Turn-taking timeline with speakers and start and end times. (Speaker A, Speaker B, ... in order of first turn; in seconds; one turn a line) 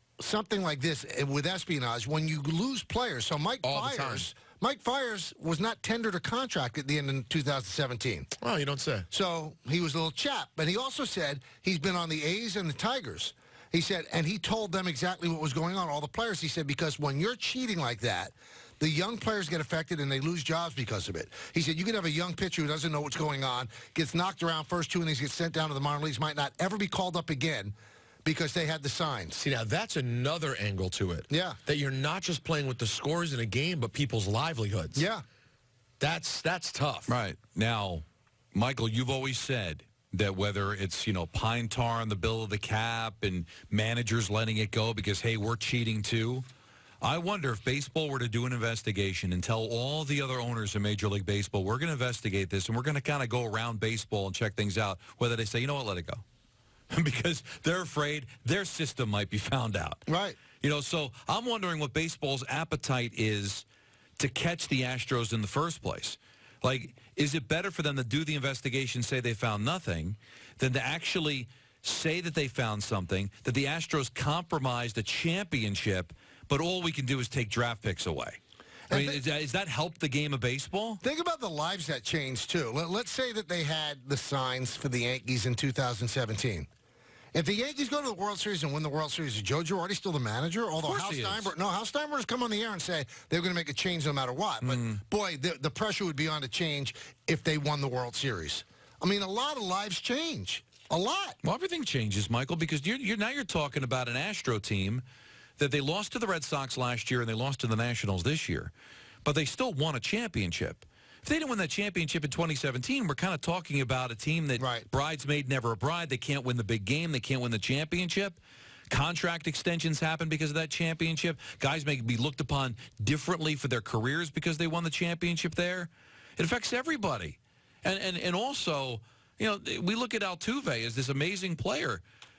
Speaker A: 0.2-8.3
Speaker B: 3.6-4.3
Speaker B: 8.4-9.1
Speaker A: 9.1-29.4
Speaker B: 29.4-35.1
Speaker A: 31.3-31.6
Speaker A: 35.0-35.2
Speaker B: 36.0-37.1
Speaker C: 37.1-46.5
Speaker C: 47.0-56.2
Speaker C: 56.9-60.1
Speaker A: 60.1-60.4
Speaker C: 60.6-63.6
Speaker C: 64.2-78.4
Speaker A: 78.9-79.2
Speaker C: 78.9-81.0
Speaker A: 81.0-86.7
Speaker A: 87.3-101.4
Speaker C: 90.8-91.5
Speaker C: 94.6-95.0
Speaker C: 101.4-105.0
Speaker C: 105.6-108.7
Speaker C: 109.2-118.4
Speaker A: 114.6-114.9
Speaker C: 118.9-132.0